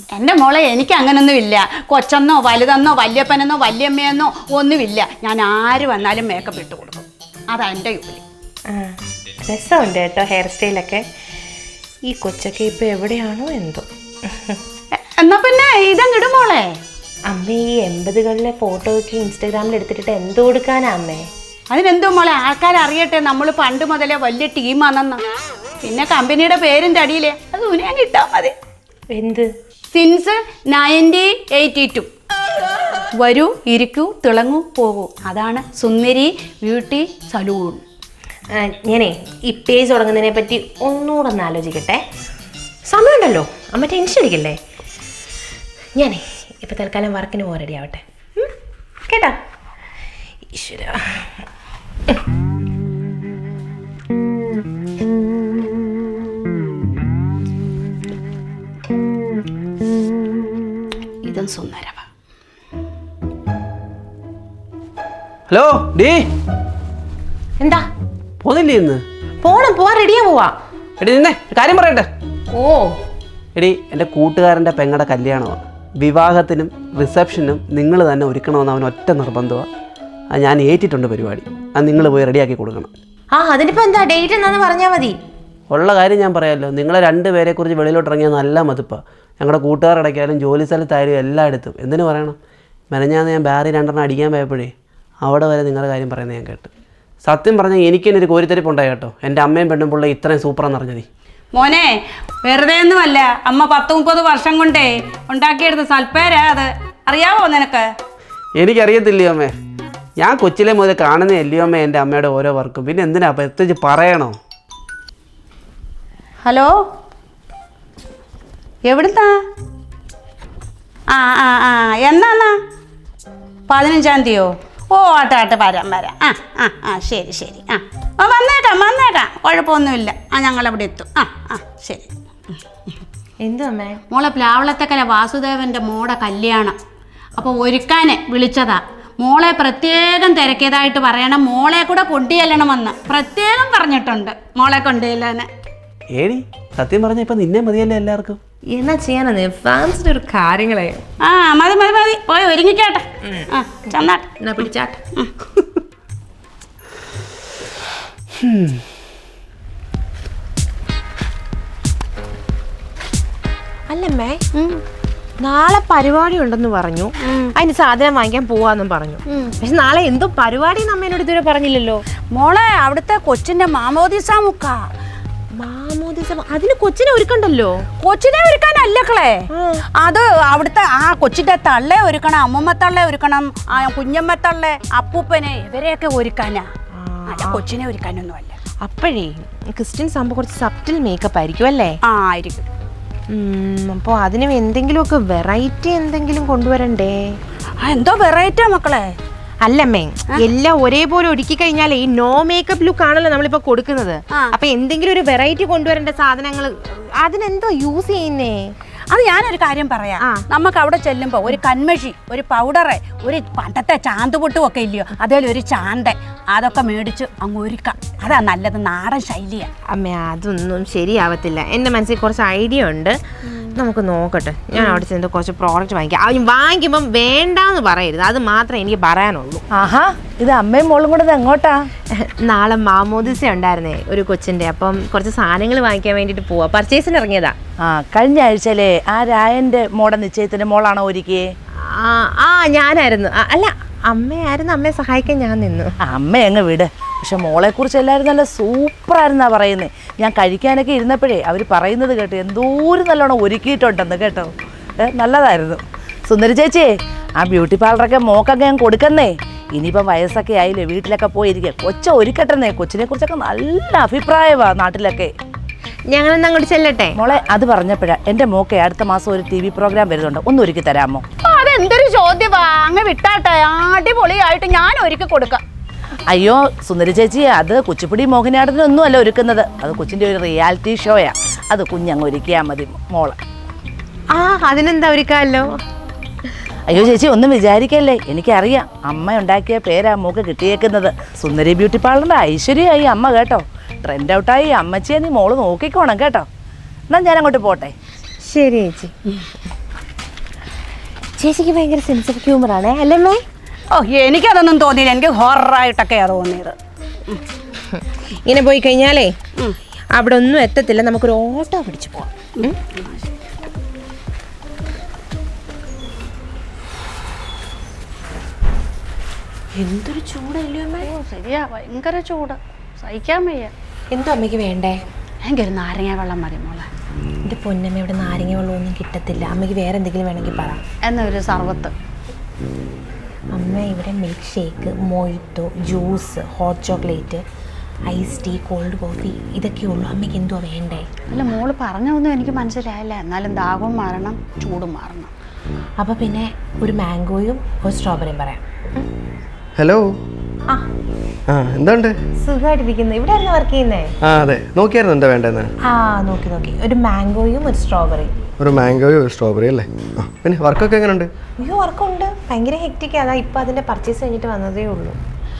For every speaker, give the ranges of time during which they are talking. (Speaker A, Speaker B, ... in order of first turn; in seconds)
Speaker A: 0.1-8.2, 14.9-16.7, 21.7-25.2, 25.8-28.5, 29.9-32.1, 33.2-37.8, 61.2-62.0, 101.5-101.9, 102.4-107.9, 116.4-116.7, 118.8-119.3, 121.1-122.6, 123.7-132.1, 134.1-136.7, 137.4-145.5, 151.2-154.3, 155.1-155.7, 164.5-164.8, 167.2-167.5, 169.3-169.5, 172.3-174.9, 178.0-179.5, 180.0-186.7, 187.3-188.6, 192.0-192.6, 197.8-199.2, 209.1-219.7, 271.4-275.6, 303.9-306.7, 312.6-313.7, 321.0-323.7, 325.4-326.9, 331.0-331.9, 341.3-345.3
Speaker B: 8.7-11.0, 12.1-14.6, 17.3-21.2, 29.1-29.5, 38.5-42.0, 42.9-44.6, 46.0-48.5, 49.0-49.4, 50.5-51.3, 67.6-67.8, 69.4-70.5, 72.5-73.0, 83.3-85.2, 133.4-134.0, 148.7-151.0, 154.4-155.0, 163.9-164.4, 165.4-172.0, 175.6-177.8, 179.5-179.8, 186.9-187.6, 188.8-192.0, 193.3-197.4, 199.6-208.7, 219.9-223.2, 223.7-229.6, 232.1-237.6, 241.8-245.9, 266.1-267.2, 284.3-285.8, 298.4-299.1, 301.4-303.4, 307.9-309.3, 310.1-312.8, 319.7-321.1, 324.1-325.0, 327.4-330.8, 333.5-337.4, 338.1-341.1, 346.0-349.1, 352.4-354.1, 355.8-358.3, 361.6-365.2
Speaker C: 65.5-66.3, 68.4-69.0, 71.0-72.1, 73.5-79.7, 80.3-82.9, 85.7-92.4, 92.9-96.7, 97.2-101.0, 108.6-109.5, 110.2-114.3, 146.1-148.4, 158.4-158.8
Speaker D: 229.7-231.8, 237.8-241.4, 246.0-265.3, 267.2-271.2, 276.3-283.4, 286.9-296.5, 297.1-297.9
Speaker E: 349.8-350.1, 351.5-352.1, 354.2-355.7, 358.6-361.3